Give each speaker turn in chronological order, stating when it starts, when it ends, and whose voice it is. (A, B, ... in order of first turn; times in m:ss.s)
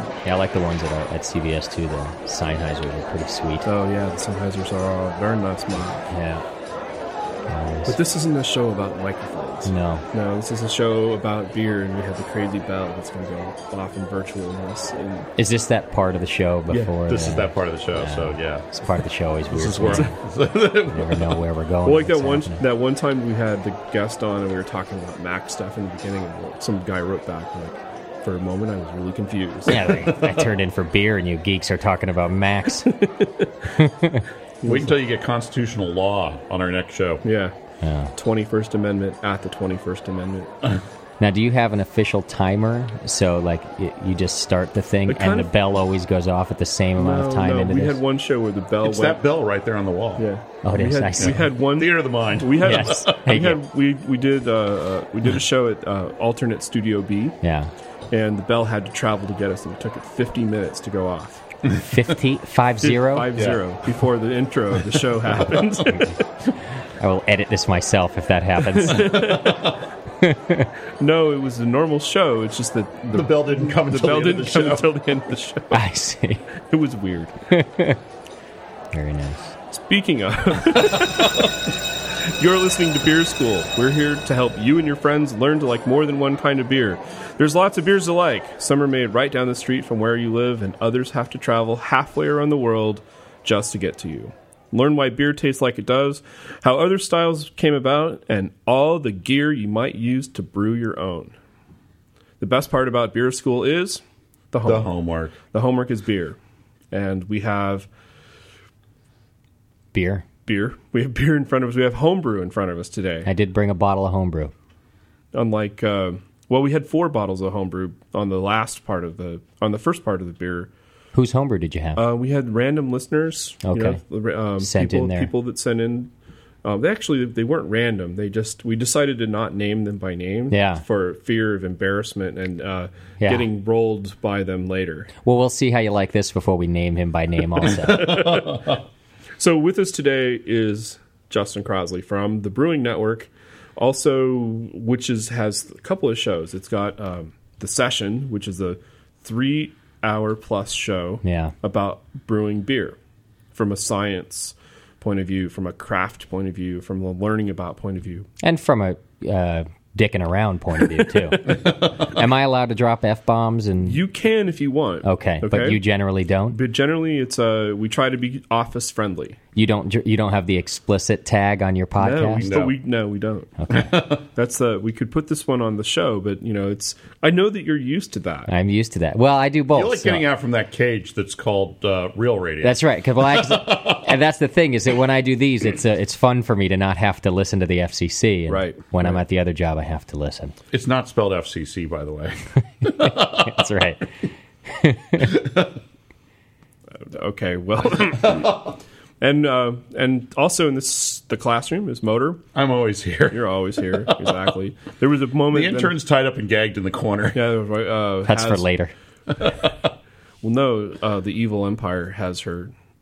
0:00.2-0:03.7 A
0:03.6-0:06.0 B
0:06.1-0:06.4 A
0:07.5-0:08.0 A
0:07.9-0:15.3 B
0:09.6-0:10.0 A
0:15.4-0:20.2 A
0:17.1-0:18.7 C
0:19.5-0:21.4 C
0:20.8-0:22.6 A
0:21.8-0:29.9 B
0:29.7-0:33.0 A
0:32.9-0:33.7 B
0:33.7-0:34.3 A
0:34.6-0:34.9 B
0:34.6-0:37.2 C
0:37.2-0:37.6 B
0:37.8-0:38.2 A
0:38.2-0:40.5 B
0:41.2-0:48.0 A
0:45.1-0:45.6 B
0:47.0-0:49.2 B
0:48.8-0:50.3 C
0:50.2-0:57.4 B
0:50.6-0:51.5 A
0:51.2-0:53.3 C
0:52.6-0:53.6 A
0:57.4-0:57.7 A
0:58.1-1:01.4 B
1:01.7-1:03.4 A
1:02.8-1:06.2 B
1:03.4-1:03.6 C
1:07.0-1:09.5 A
1:08.6-1:09.8 B
1:09.1-1:09.8 C
1:10.2-1:10.7 A
1:11.0-1:15.8 B
1:13.1-1:15.0 C
1:15.7-1:16.5 A
1:16.5-1:17.3 B
1:17.5-1:18.0 A
1:18.9-1:19.6 A
1:19.7-1:41.3 B
1:42.4-1:44.9 B
1:44.6-1:45.4 C
1:45.4-1:46.4 B
1:46.9-1:47.9 B
1:49.9-1:50.2 A
1:50.5-1:53.3 B
1:53.2-1:54.5 A
1:55.3-2:00.7 B
2:01.1-2:02.0 A
2:02.0-2:06.1 B
2:03.6-2:04.0 A
2:04.6-2:05.3 A
2:06.6-2:15.1 B
2:10.5-2:10.8 A
2:13.2-2:13.5 A
2:15.2-2:18.4 A
2:17.7-2:18.8 B
2:19.4-2:33.0 B
2:31.2-2:31.6 A
2:33.5-2:38.3 B
2:38.4-2:44.0 A
2:41.1-2:41.4 B
2:41.5-2:41.9 C
2:43.8-2:45.8 B
2:45.0-2:46.6 A
2:46.5-2:49.4 B
2:49.5-2:52.5 A
2:52.0-2:53.6 B
2:52.4-2:52.8 C
2:53.6-2:54.0 A
2:53.7-2:54.2 C
2:54.3-2:58.5 B
2:58.5-3:00.2 A
2:59.7-3:04.0 C
3:02.6-3:10.6 A
3:08.5-3:09.2 B
3:10.7-3:13.7 C
3:12.8-3:14.1 A
3:14.7-3:15.4 A
3:15.2-3:15.7 C
3:17.0-3:18.6 B
3:18.2-3:18.8 C
3:19.2-3:22.4 B
3:22.6-3:24.3 C
3:23.3-3:26.0 B
3:25.5-3:27.5 C
3:27.3-3:28.7 B
3:28.2-3:28.9 A
3:29.3-3:29.9 C
3:30.4-3:32.7 B